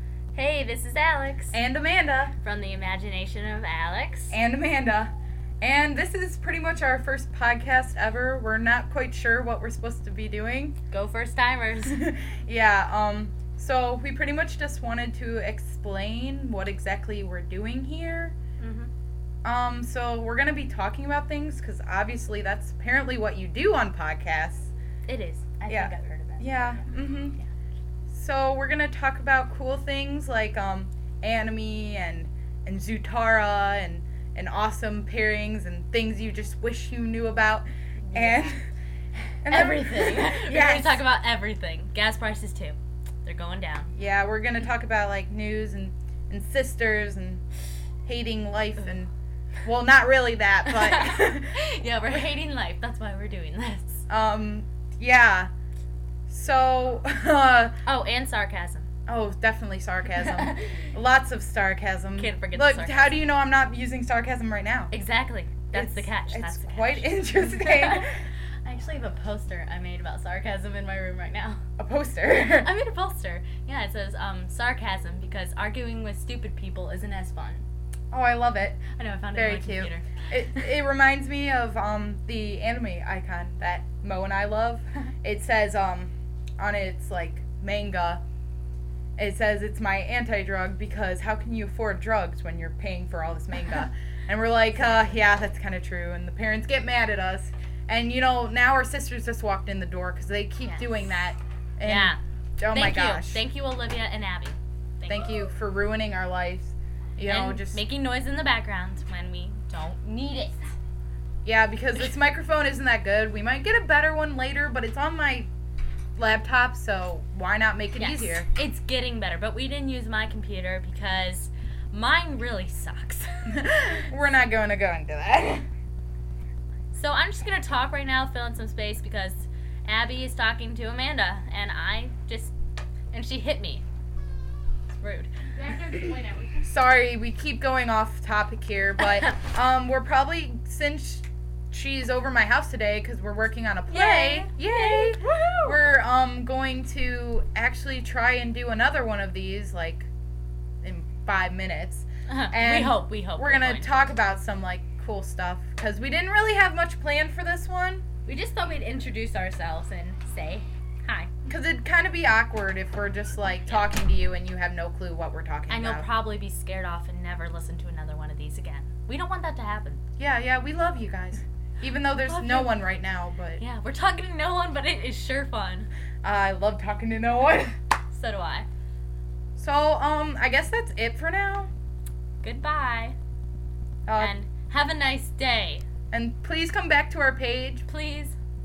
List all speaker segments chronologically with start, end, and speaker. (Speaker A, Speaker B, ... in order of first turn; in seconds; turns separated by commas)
Speaker A: 0.3-1.6, Speaker B: 1.5-2.3, Speaker A: 2.4-4.3, Speaker B: 4.3-10.8, Speaker A: 10.9-12.0, Speaker B: 11.8-18.3, Speaker A: 18.6-18.9, Speaker B: 19.4-24.7, Speaker A: 25.1-27.4, Speaker B: 25.7-27.4, Speaker B: 28.1-38.6, Speaker A: 38.1-38.5, Speaker B: 39.4-41.0, Speaker A: 39.5-43.9, Speaker B: 44.0-47.4, Speaker B: 48.0-49.1, Speaker B: 49.6-51.5, Speaker A: 50.6-54.0, Speaker B: 54.1-55.5, Speaker B: 56.3-57.8, Speaker A: 57.9-58.9, Speaker B: 59.1-64.9, Speaker A: 60.2-60.7, Speaker A: 62.1-63.1, Speaker A: 64.9-71.6, Speaker B: 65.7-68.2, Speaker B: 71.8-72.7, Speaker A: 72.4-77.6, Speaker B: 78.1-88.2, Speaker A: 78.9-80.0, Speaker B: 89.2-103.4, Speaker A: 94.8-95.1, Speaker A: 100.6-101.0, Speaker A: 101.8-102.2, Speaker A: 102.7-105.3, Speaker B: 105.1-107.8, Speaker A: 107.2-110.6, Speaker B: 111.4-115.5, Speaker B: 116.2-118.5, Speaker A: 118.0-123.5, Speaker B: 123.5-125.7, Speaker A: 126.9-132.5, Speaker A: 133.1-133.8, Speaker A: 134.9-136.6, Speaker B: 136.6-150.1, Speaker A: 143.9-145.7, Speaker B: 150.8-158.0, Speaker A: 152.3-154.1, Speaker A: 158.2-161.3, Speaker B: 161.5-166.1, Speaker A: 165.7-170.0, Speaker B: 170.2-173.6, Speaker A: 172.2-172.8, Speaker A: 173.6-175.9, Speaker B: 176.2-177.8, Speaker A: 178.1-178.7, Speaker B: 179.6-181.7, Speaker A: 182.4-183.2, Speaker B: 184.1-184.3, Speaker A: 184.2-185.8, Speaker B: 186.1-187.8, Speaker A: 187.9-188.4